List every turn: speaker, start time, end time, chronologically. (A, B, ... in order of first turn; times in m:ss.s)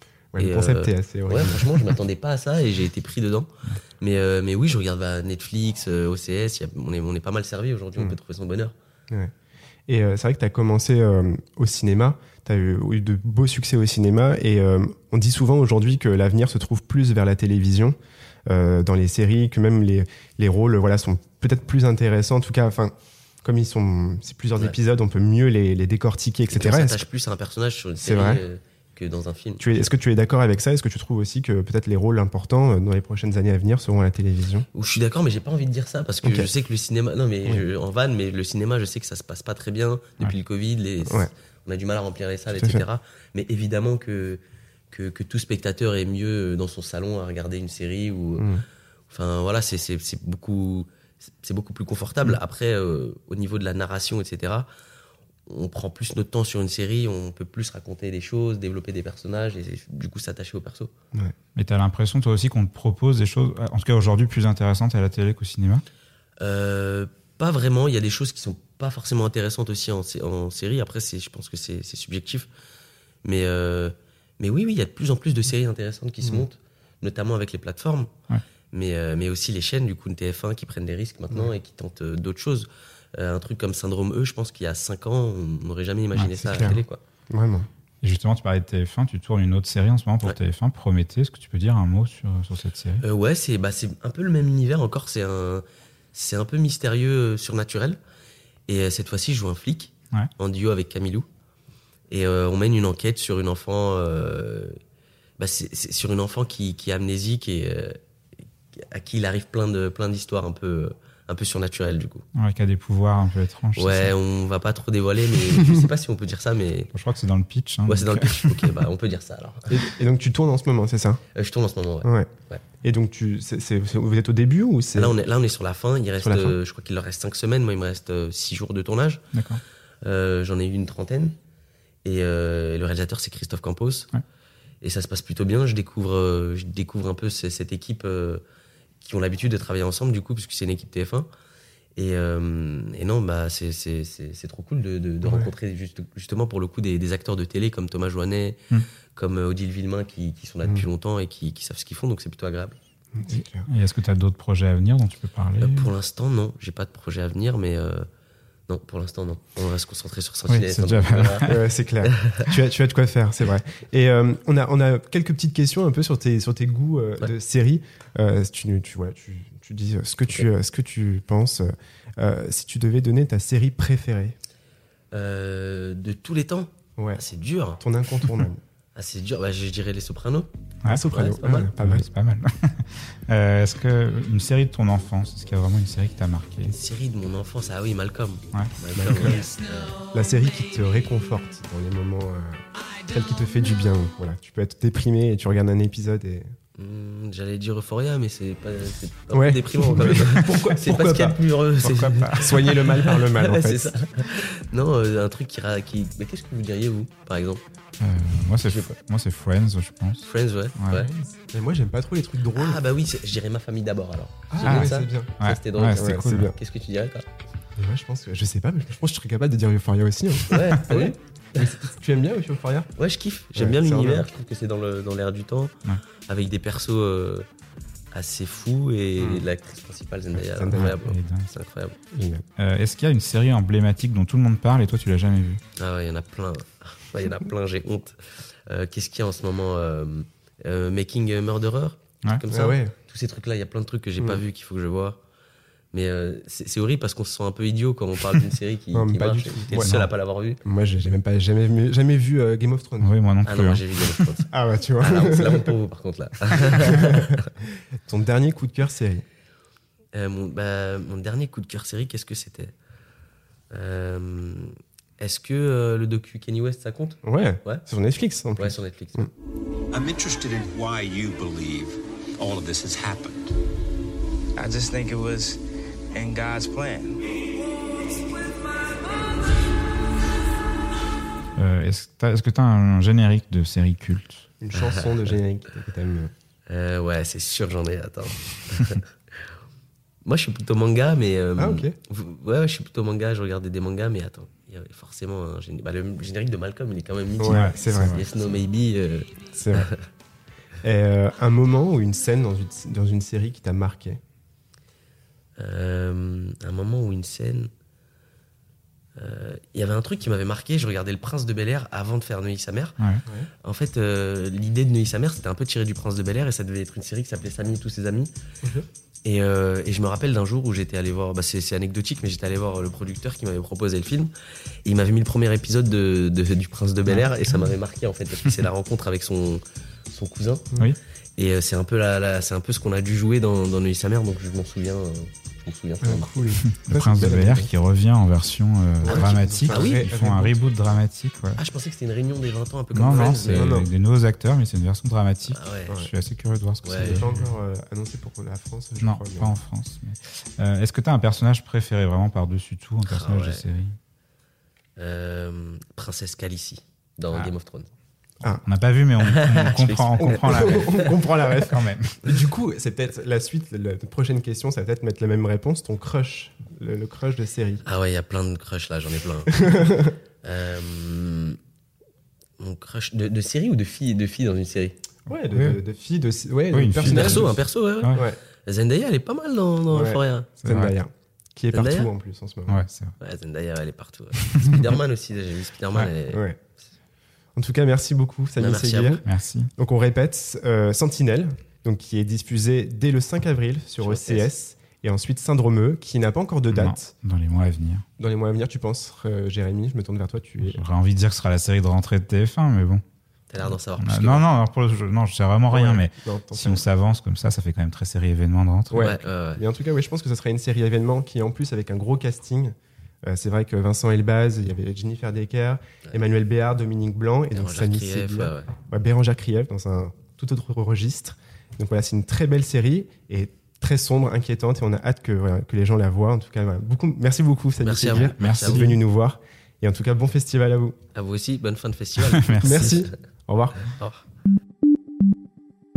0:00.3-0:01.9 A
0:00.4-0:08.7 B
0:09.9-0:17.9 A
0:18.5-0:27.0 A
0:26.5-0:29.9 B
0:28.0-0:28.4 A
0:29.6-0:34.7 A
0:34.7-0:48.5 B
0:36.2-0:36.5 A
0:41.0-0:41.3 A
0:42.5-0:42.8 A
0:48.4-0:48.6 A
0:49.1-0:50.9 B
0:51.4-0:54.7 B
0:55.5-1:00.9 B
1:01.6-1:05.8 C
1:06.4-1:12.5 B
1:13.2-1:18.1 B
1:18.7-1:27.0 B
1:26.2-1:26.7 C
1:26.4-1:27.7 A
1:28.0-1:33.0 C
1:33.0-1:38.0 B
1:38.7-1:41.2 B
1:42.1-1:44.8 B
1:45.4-1:48.0 B
1:48.8-1:52.2 B
1:52.3-1:54.1 C
1:53.8-1:56.9 B
1:55.6-1:55.8 A
1:56.9-1:58.8 C
1:57.9-1:59.7 B
1:59.7-2:01.2 A
2:01.3-2:02.6 B
2:02.0-2:02.3 A
2:02.8-2:05.1 A
2:04.9-2:09.2 B
2:06.2-2:06.6 A
2:09.3-2:09.6 C
2:10.0-2:11.3 B
2:12.0-2:14.1 B
2:14.8-2:18.4 B
2:19.0-2:21.3 B
2:22.0-2:28.6 B
2:25.2-2:25.5 A
2:29.1-2:32.8 B
2:33.1-2:33.7 A
2:33.2-2:35.9 C
2:35.6-2:38.1 B
2:38.7-2:41.5 B
2:40.5-2:41.6 C
2:41.4-2:54.3 A
2:42.0-2:42.4 B
2:55.1-2:57.8 B
2:57.0-2:57.2 A
2:57.8-2:58.6 A
2:58.9-3:00.5 B
3:00.8-3:02.0 A
3:01.1-3:01.7 B
3:01.8-3:06.7 C
3:06.7-3:10.0 B
3:08.5-3:09.4 C
3:09.0-3:09.4 A
3:10.0-3:16.5 A
3:16.8-3:27.6 B
3:19.3-3:21.4 A
3:21.8-3:22.7 C
3:22.3-3:23.9 A
3:28.0-3:30.2 C
3:28.6-3:29.0 B
3:30.2-3:31.1 B
3:30.8-3:31.0 C
3:30.9-3:32.8 A
3:32.5-3:37.2 B
3:34.5-3:35.3 A
3:34.6-3:36.5 C
3:35.9-3:36.6 A
3:37.8-3:42.9 A
3:40.5-3:41.6 B
3:43.0-3:45.7 B
3:43.6-3:44.3 A
3:46.3-3:47.4 B
3:48.1-3:52.0 B
3:49.2-3:49.4 A
3:50.3-3:50.9 A
3:50.7-3:51.5 C
3:52.1-3:52.4 A
3:52.6-3:55.6 C
3:55.8-3:58.2 B
3:58.7-4:05.2 B
4:02.5-4:02.9 A
4:05.9-4:10.6 B
4:08.9-4:10.0 A
4:09.7-4:10.1 C
4:10.6-4:13.1 A
4:13.0-4:14.2 C
4:13.4-4:17.5 B
4:14.5-4:15.7 A
4:16.6-4:17.4 A
4:18.1-4:19.2 A
4:20.1-4:22.7 B
4:23.7-4:27.8 B
4:27.2-4:29.3 A
4:28.6-4:29.3 B
4:29.9-4:33.5 D
4:34.6-4:35.6 E
4:36.1-4:37.3 E
4:41.6-4:44.4 C
4:44.6-4:46.3 A
4:44.7-4:45.1 B
4:46.7-4:49.0 B
4:50.2-5:00.0 B
4:51.6-4:51.9 A
4:57.4-4:58.2 A
4:57.4-4:58.2 C
4:59.5-4:59.9 A
5:00.8-5:04.2 A
5:05.6-5:07.7 B
5:09.2-5:13.0 B
5:13.6-5:18.3 B
5:19.2-5:24.3 B
5:24.8-5:30.7 B
5:27.1-5:27.7 A
5:31.4-5:36.5 B
5:36.0-5:37.7 A
5:36.7-5:41.6 C
5:39.0-5:40.6 A
5:39.0-5:40.1 B
5:41.6-5:43.7 B
5:42.9-5:47.5 C
5:43.1-5:43.9 A
5:45.5-5:46.0 B
5:46.8-5:47.3 B
5:46.9-5:49.5 A
5:49.0-5:54.0 C
5:53.1-5:53.6 B
5:55.0-5:57.9 B
5:58.6-6:02.4 C
5:59.2-6:01.0 B
6:00.2-6:07.8 A
6:07.8-6:11.6 B
6:09.5-6:10.1 A
6:12.6-6:15.0 B
6:15.3-6:17.5 A
6:15.3-6:15.8 C
6:16.7-6:18.2 C
6:17.0-6:20.5 B
6:19.9-6:22.8 A
6:20.6-6:20.9 C
6:21.7-6:22.1 B
6:22.7-6:23.1 C
6:23.2-6:26.4 B
6:24.5-6:24.8 C
6:26.3-6:26.6 A
6:27.6-6:29.2 A
6:28.6-6:29.2 B
6:29.2-6:29.7 C
6:29.8-6:37.1 A
6:34.0-6:34.5 B
6:36.7-6:38.0 C
6:38.2-6:40.8 A
6:40.6-6:43.0 C
6:43.5-6:44.4 B
6:44.0-6:49.2 C
6:45.7-6:46.8 A
6:48.9-7:11.0 A
6:49.0-6:49.6 B
6:57.5-6:58.7 B
7:07.8-7:08.9 B
7:08.1-7:09.0 C
7:11.1-7:13.1 B
7:12.4-7:13.0 C
7:12.6-7:13.9 A
7:13.9-7:14.2 B